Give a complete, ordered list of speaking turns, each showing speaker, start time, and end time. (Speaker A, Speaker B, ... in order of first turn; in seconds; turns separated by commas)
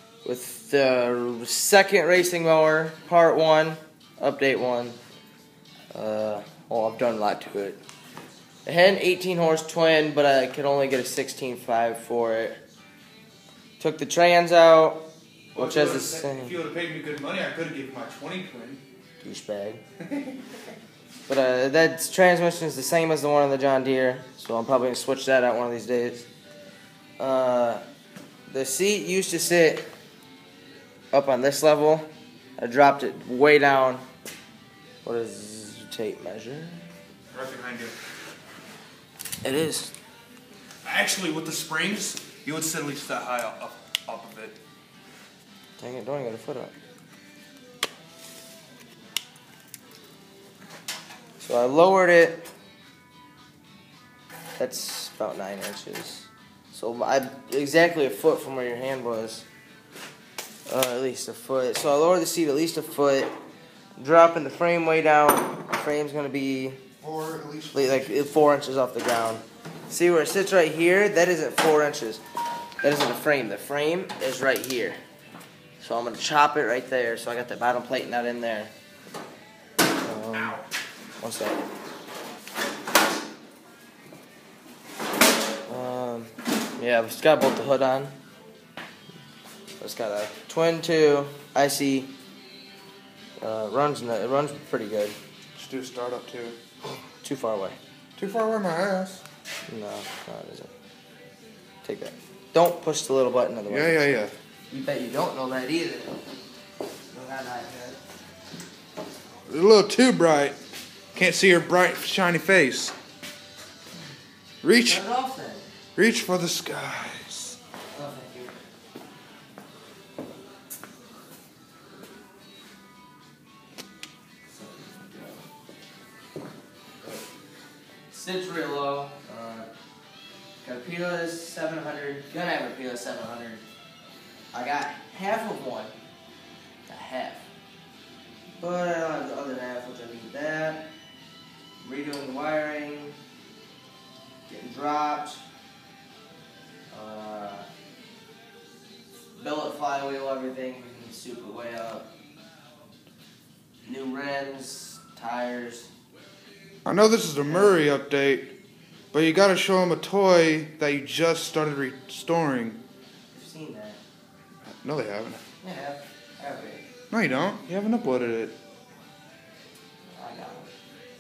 Speaker A: 0.2-5.0, Speaker A: 5.9-7.8, Speaker A: 8.7-12.6, Speaker A: 13.8-15.0, Speaker B: 15.5-18.8, Speaker A: 15.6-16.6, Speaker A: 19.2-19.8, Speaker B: 20.0-20.4, Speaker A: 21.3-26.3, Speaker A: 27.2-27.8, Speaker A: 28.5-29.9, Speaker A: 31.1-34.0, Speaker A: 35.0-36.9, Speaker B: 37.3-37.9, Speaker A: 39.4-39.9, Speaker B: 40.8-44.6, Speaker A: 45.8-46.7, Speaker A: 51.4-52.5, Speaker A: 54.6-59.5, Speaker A: 60.7-63.3, Speaker A: 64.0-66.8, Speaker B: 67.0-68.3, Speaker A: 67.7-72.2, Speaker A: 72.8-75.0, Speaker A: 75.8-78.7, Speaker A: 79.9-80.6, Speaker A: 81.2-81.6, Speaker A: 85.7-88.2, Speaker A: 89.8-92.1, Speaker A: 93.4-95.2, Speaker B: 95.6-96.6, Speaker A: 97.2-97.8, Speaker B: 98.2-99.2, Speaker A: 99.7-100.7, Speaker A: 101.8-104.2, Speaker B: 103.7-104.3, Speaker A: 104.7-106.2, Speaker A: 107.1-108.0, Speaker B: 109.5-110.6, Speaker B: 111.2-113.0, Speaker B: 114.6-115.0, Speaker A: 114.8-115.7, Speaker B: 116.0-117.6, Speaker A: 117.9-118.6, Speaker A: 124.5-125.4, Speaker A: 128.1-129.7, Speaker A: 130.6-133.6, Speaker A: 134.5-135.9, Speaker A: 136.9-137.5, Speaker A: 138.6-140.9, Speaker A: 141.8-143.2, Speaker A: 144.5-145.5, Speaker A: 146.9-147.7, Speaker A: 149.4-152.1, Speaker A: 153.8-155.9, Speaker B: 156.8-158.5, Speaker A: 157.5-157.8, Speaker B: 159.1-162.8, Speaker A: 163.3-164.0, Speaker B: 164.8-165.4, Speaker A: 165.6-166.8, Speaker B: 167.1-168.6, Speaker A: 170.1-170.7